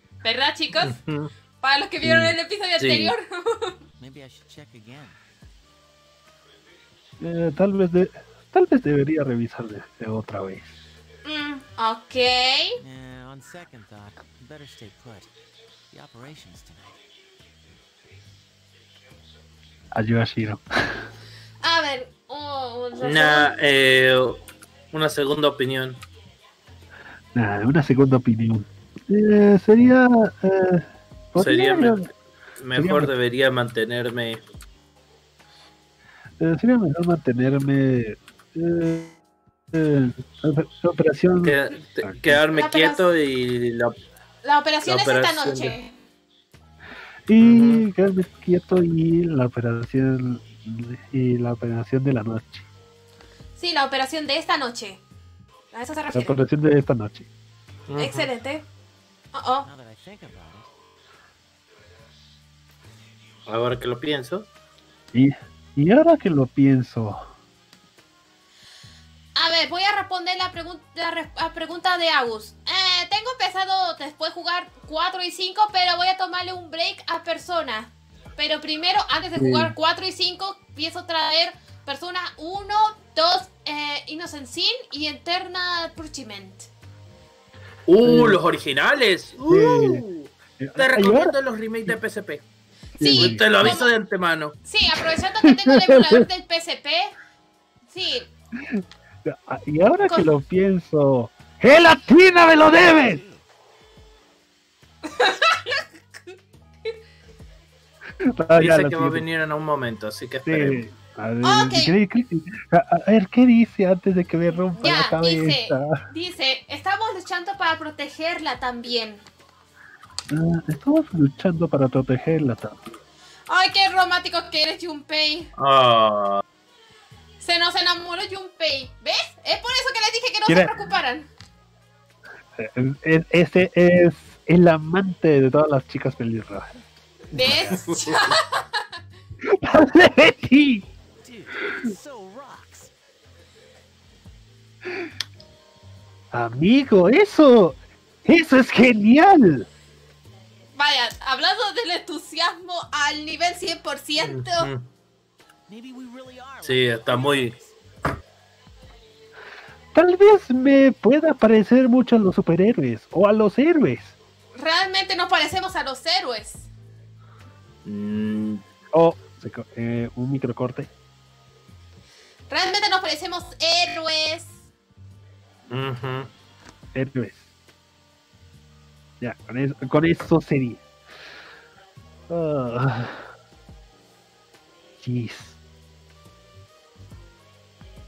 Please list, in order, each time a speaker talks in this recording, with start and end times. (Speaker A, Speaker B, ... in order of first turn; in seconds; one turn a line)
Speaker A: 0.2-1.0
Speaker B: 0.8-1.3
Speaker A: 1.6-3.8
Speaker B: 2.8-3.1
Speaker C: 4.0-5.2
Speaker D: 7.2-10.7
Speaker A: 11.2-12.7
Speaker C: 12.8-15.3
Speaker C: 15.9-17.0
Speaker D: 19.9-21.0
Speaker A: 21.6-23.5
Speaker B: 23.0-26.0
Speaker D: 27.3-32.1
Speaker B: 31.4-32.1
Speaker B: 32.6-34.4
Speaker D: 32.7-33.1
Speaker D: 36.4-39.2
Speaker D: 39.7-42.4
Speaker B: 41.4-43.9
Speaker A: 42.5-43.0
Speaker A: 44.4-45.9
Speaker B: 44.8-45.8
Speaker D: 47.3-52.7
Speaker B: 47.4-47.8
Speaker A: 53.6-55.0
Speaker A: 55.7-56.4
Speaker D: 56.1-57.3
Speaker B: 57.9-58.3
Speaker A: 58.0-58.6
Speaker A: 59.3-59.7
Speaker C: 59.6-60.7
Speaker B: 63.5-64.5
Speaker D: 65.1-67.3
Speaker A: 69.3-86.7
Speaker D: 79.3-79.7
Speaker B: 87.8-92.4
Speaker D: 88.0-88.4
Speaker D: 89.4-90.1
Speaker D: 90.6-91.3
Speaker D: 93.0-93.8
Speaker A: 93.0-93.9
Speaker B: 93.0-94.6
Speaker A: 94.6-97.1
Speaker D: 95.0-96.2
Speaker A: 97.9-98.3
Speaker D: 98.7-103.2
Speaker A: 100.1-100.3
Speaker C: 102.3-103.5
Speaker A: 105.1-106.3
Speaker D: 108.2-109.3
Speaker B: 108.5-110.8
Speaker D: 110.5-116.0
Speaker A: 111.4-111.9
Speaker A: 114.8-119.2
Speaker D: 120.3-122.8
Speaker A: 123.5-125.5
Speaker B: 125.6-126.4
Speaker A: 127.4-131.3
Speaker D: 130.4-130.7
Speaker D: 132.6-136.7
Speaker D: 137.3-137.8
Speaker A: 137.3-138.8
Speaker B: 137.7-138.2
Speaker D: 139.4-140.9
Speaker C: 141.2-142.9
Speaker D: 146.3-149.7
Speaker A: 150.8-154.7
Speaker B: 154.2-154.9
Speaker C: 155.7-157.8
Speaker B: 156.6-157.6
Speaker D: 159.9-164.1
Speaker A: 164.6-166.7
Speaker B: 167.8-168.6
Speaker D: 168.9-170.9
Speaker A: 172.5-174.6
Speaker B: 175.7-176.3
Speaker D: 176.9-177.5
Speaker D: 179.2-180.8
Speaker D: 182.3-183.3
Speaker D: 185.0-185.6